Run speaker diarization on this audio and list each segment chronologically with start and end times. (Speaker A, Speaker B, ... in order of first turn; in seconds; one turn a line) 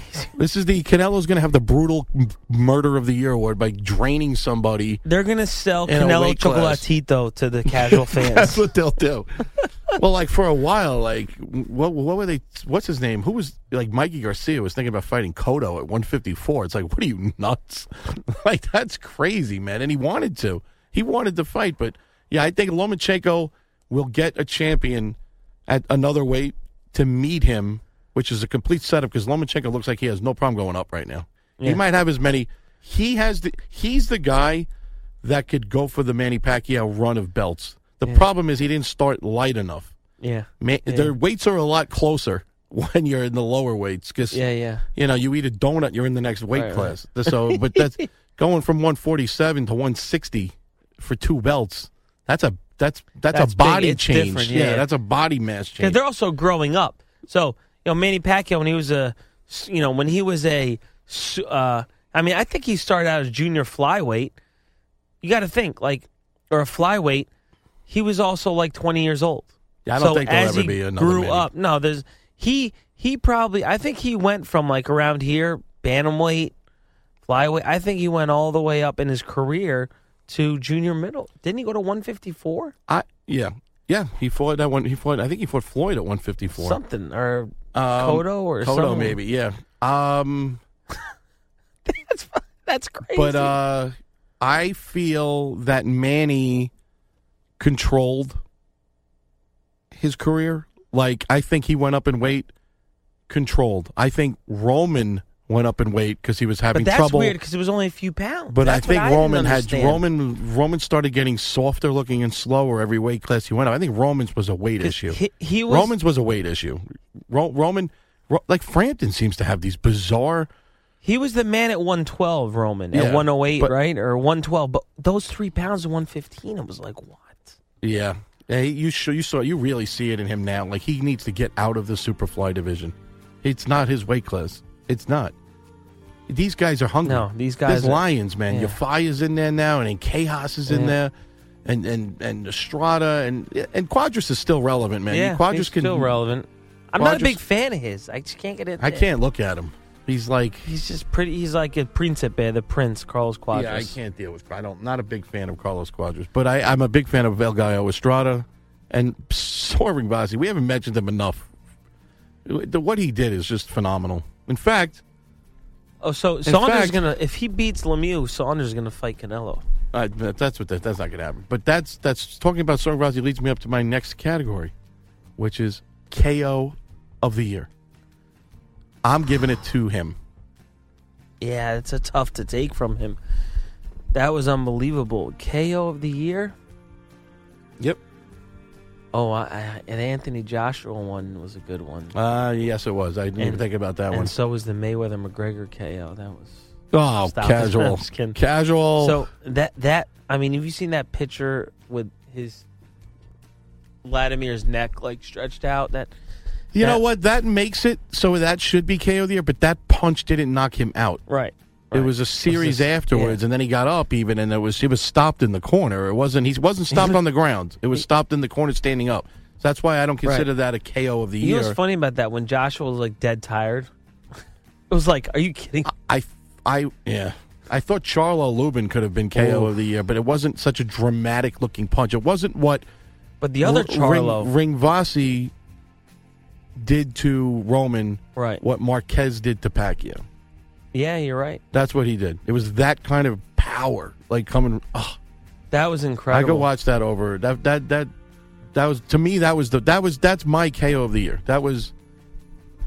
Speaker A: 0.3-5.0
Speaker B: 5.0-8.6
Speaker A: 5.8-6.8
Speaker A: 7.7-9.3
Speaker A: 9.9-34.7
Speaker A: 35.2-39.9
Speaker B: 40.2-41.1
Speaker A: 40.6-44.4
Speaker B: 44.3-44.8
Speaker A: 44.9-56.0
Speaker B: 46.5-48.0
Speaker B: 53.3-54.9
Speaker B: 55.8-64.3
Speaker B: 65.2-67.3
Speaker B: 67.9-76.5
Speaker A: 69.8-71.5
Speaker B: 77.2-82.7
Speaker A: 82.9-86.8
Speaker B: 86.5-89.2
Speaker A: 87.7-90.6
Speaker B: 91.8-93.5
Speaker A: 93.1-96.7
Speaker A: 97.6-98.4
Speaker A: 99.9-102.5
Speaker A: 103.3-107.3
Speaker B: 106.7-110.0
Speaker A: 108.5-120.5
Speaker B: 114.8-115.9
Speaker B: 121.0-127.6
Speaker A: 122.9-123.7
Speaker A: 127.8-135.3
Speaker A: 136.3-141.1
Speaker B: 137.0-138.8
Speaker B: 140.7-140.9
Speaker A: 141.6-146.1
Speaker B: 145.1-149.1
Speaker A: 147.0-147.4
Speaker A: 148.8-150.6
Speaker B: 150.6-153.9
Speaker A: 153.5-161.5
Speaker A: 162.4-165.0
Speaker B: 166.0-169.6
Speaker A: 166.4-167.0
Speaker A: 169.9-174.7
Speaker A: 175.4-177.7
Speaker A: 179.0-180.2
Speaker B: 181.4-183.2
Speaker B: 184.1-186.5
Speaker B: 189.1-192.2
Speaker A: 192.1-194.3
Speaker B: 193.4-196.6
Speaker A: 196.9-199.2
Speaker B: 197.2-198.4
Speaker B: 199.0-202.6
Speaker B: 204.0-206.1
Speaker A: 206.7-211.2
Speaker B: 206.8-207.0
Speaker B: 211.3-213.4
Speaker A: 211.9-221.8
Speaker B: 221.4-223.9
Speaker B: 224.9-225.9
Speaker A: 225.8-232.8
Speaker B: 229.3-229.7
Speaker B: 233.4-234.5
Speaker A: 233.6-235.5
Speaker A: 236.8-240.2
Speaker B: 238.3-238.6
Speaker B: 240.9-241.6
Speaker A: 241.7-245.2
Speaker B: 245.7-246.7
Speaker A: 246.3-248.1
Speaker A: 248.7-251.9